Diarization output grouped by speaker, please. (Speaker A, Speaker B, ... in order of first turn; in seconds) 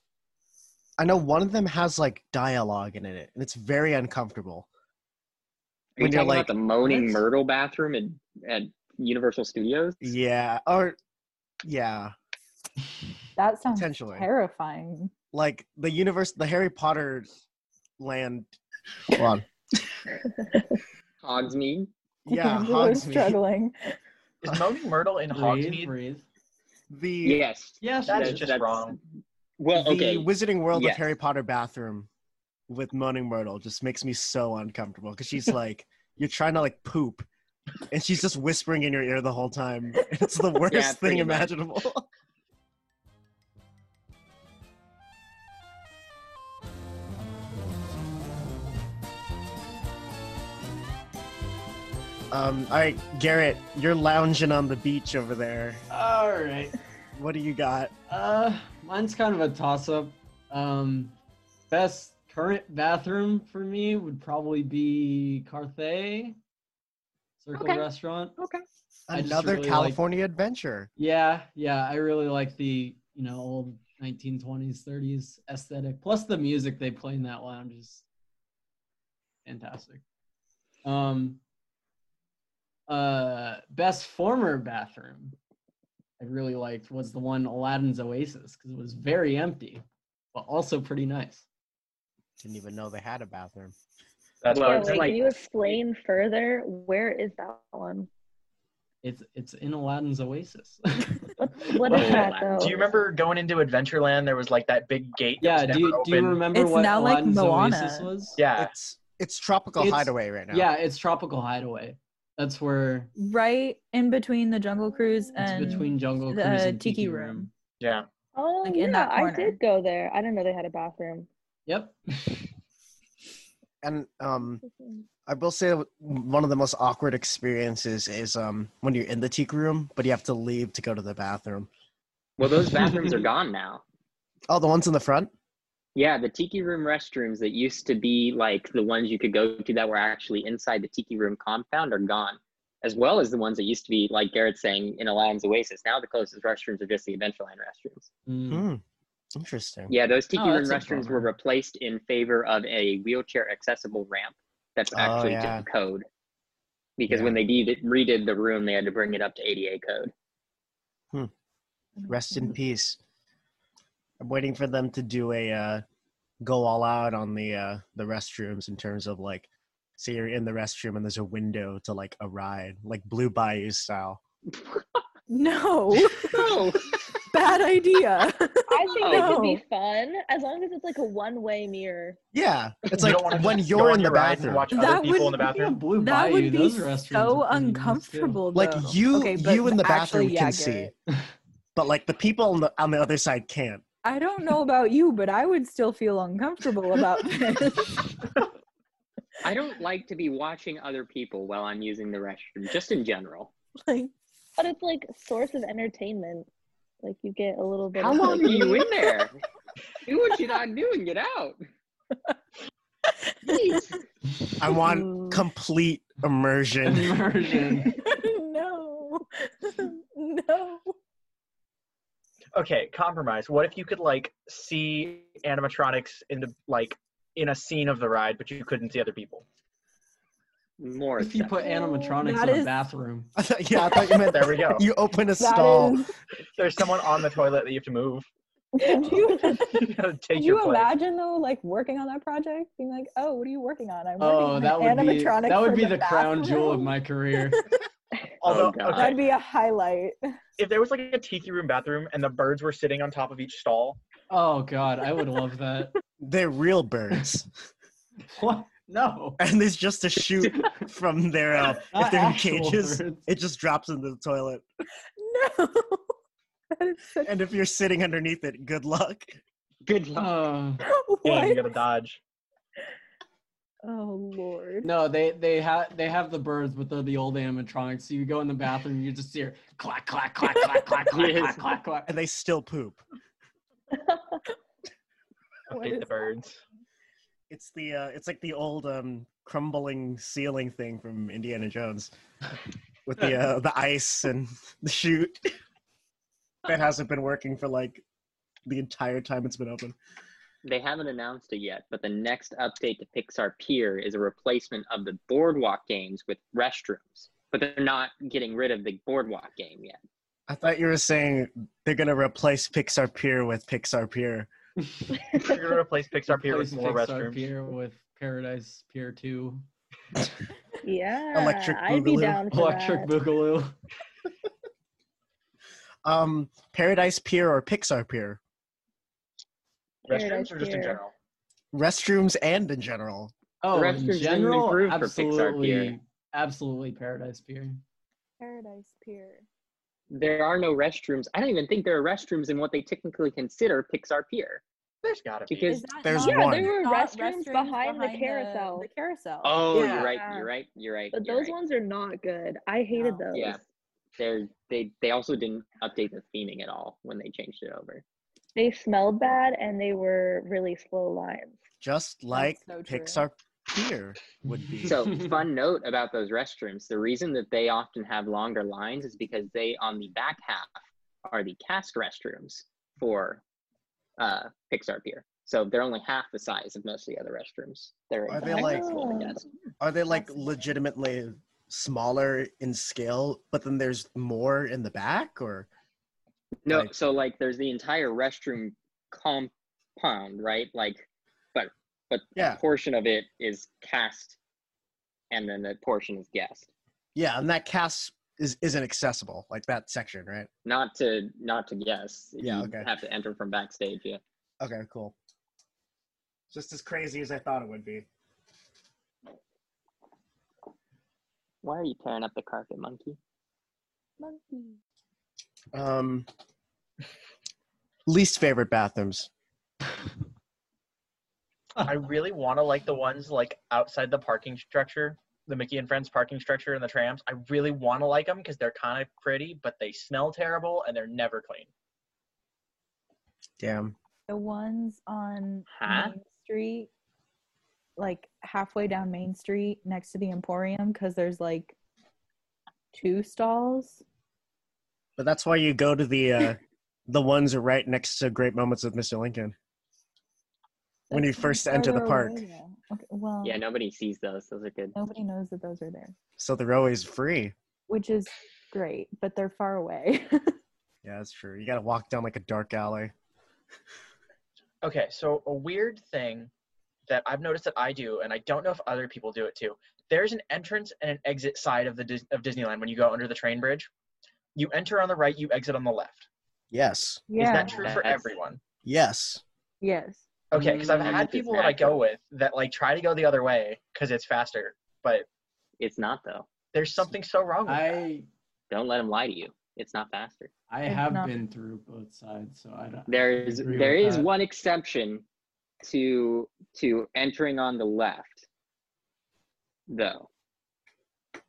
Speaker A: 1.0-4.7, 6.0-6.5, 10.0-10.9, 11.6-12.1, 13.7-14.3, 15.3-17.3, 18.0-18.5, 19.1-19.4, 22.2-23.4, 26.9-27.4, 29.7-32.1, 32.7-37.3, 37.9-42.0, 52.3-55.8, 57.1-57.9, 69.1-70.9, 92.4-93.8, 108.6-110.7, 123.8-124.6, 125.2-131.7, 134.5-135.3, 148.5-148.8, 149.3-149.9, 154.9-155.6, 157.1-157.4, 162.1-163.0, 164.2-165.8, 166.4-174.2, 182.3-184.7, 188.5-190.9, 191.8-193.8, 214.6-217.2, 233.3-236.0, 256.2-257.5, 259.4-264.6, 267.2-269.4, 282.1-283.0, 287.5-292.1, 293.1-295.5, 296.6-298.0, 298.6-299.9, 310.5-314.5, 321.3-322.4, 326.0-328.4, 331.7-333.3, 346.0-346.7, 361.8-365.0, 378.3-378.9, 379.8-385.7, 397.1-400.5, 402.4-402.9, 404.6-405.1, 406.5-408.1, 415.7-416.3, 418.1-419.3, 433.6-433.9, 445.2-449.5, 451.1-452.4, 456.4-457.5, 461.0-463.1, 476.7-477.3, 478.8-479.4
Speaker B: 6.0-10.1, 21.2-21.9, 27.2-29.0, 29.6-31.0, 40.7-41.5, 67.6-67.8, 94.5-95.8, 101.9-102.9, 132.4-133.8, 135.9-148.1, 149.9-156.1, 157.0-160.1, 176.2-177.0, 179.0-179.3, 199.4-203.5, 207.9-209.3, 210.1-211.6, 213.4-213.9, 230.8-231.7, 248.4-249.2, 269.8-270.4, 281.1-281.6, 300.6-310.0, 333.7-335.9, 340.1-344.6, 345.5-345.8, 349.4-351.5, 353.3-353.6, 354.2-358.0, 364.9-370.7, 371.2-373.4, 374.2-379.4, 386.6-394.4, 395.3-396.7, 400.6-404.2, 411.6-413.2, 435.7-436.1, 453.4-454.9, 477.7-478.3, 481.0-482.0, 485.8-486.5, 488.7-490.5, 493.1-495.2, 495.8-498.5, 499.9-500.3
Speaker C: 6.8-7.2, 13.3-15.1, 22.3-23.8, 106.5-108.1, 113.2-117.5, 118.6-119.6, 162.0-162.5, 175.3-176.5, 177.3-179.6, 184.7-190.9, 194.0-198.1, 203.9-204.1, 213.1-213.8, 217.8-220.9, 231.6-232.7, 233.8-234.2, 235.4-236.1, 238.8-247.6, 248.9-250.3, 265.2-266.1, 266.7-267.3, 270.8-271.7, 273.8-274.9, 285.7-286.2, 338.4-339.4, 345.7-349.6, 352.9-353.3, 362.3-363.2, 380.1-380.6, 434.3-436.9, 438.0-441.8, 442.9-444.0, 451.1-453.6, 454.9-456.1, 457.9-460.5, 477.3-477.8, 479.8-480.2, 490.9-491.4
Speaker D: 24.4-25.9, 28.1-29.0, 94.4-95.2, 102.6-106.4, 108.4-108.7, 117.8-118.1, 182.9-185.8, 222.5-229.4, 234.2-234.8, 236.6-238.3, 238.9-240.9, 248.4-249.2, 250.6-254.0, 271.2-272.2, 285.7-286.6, 315.3-317.4, 330.1-331.1, 345.0-345.8, 349.7-350.1, 421.8-431.7, 464.8-466.5, 467.1-473.9, 474.5-476.3, 477.3-478.6, 480.5-485.2, 486.7-487.9
Speaker E: 25.3-26.2, 27.8-28.5, 55.9-56.8, 58.1-61.1, 61.7-66.4, 67.4-68.3, 69.1-70.0, 71.0-78.0, 79.4-80.0, 80.8-81.4, 82.9-85.3, 86.2-91.4, 99.0-102.3, 105.4-108.4, 109.8-113.1, 115.4-117.5, 121.7-122.5, 132.5-133.2, 148.3-148.7, 150.4-151.3, 184.9-188.4, 216.8-217.9, 231.2-233.3, 244.2-247.6, 254.3-255.9, 258.3-259.4, 261.7-263.2, 270.1-270.8, 274.8-282.1, 316.3-319.6, 322.5-323.8, 333.6-337.8, 364.8-365.3, 480.5-481.2, 487.6-488.3, 490.7-494.3
Speaker F: 94.6-98.1, 101.4-103.0, 118.3-121.3, 124.4-125.1, 178.7-182.2, 204.6-206.5, 207.0-209.1, 214.8-215.2, 320.8-323.1, 330.1-331.0, 346.2-348.9, 349.9-350.5, 351.1-353.6, 358.6-361.6, 378.5-379.4, 414.2-414.7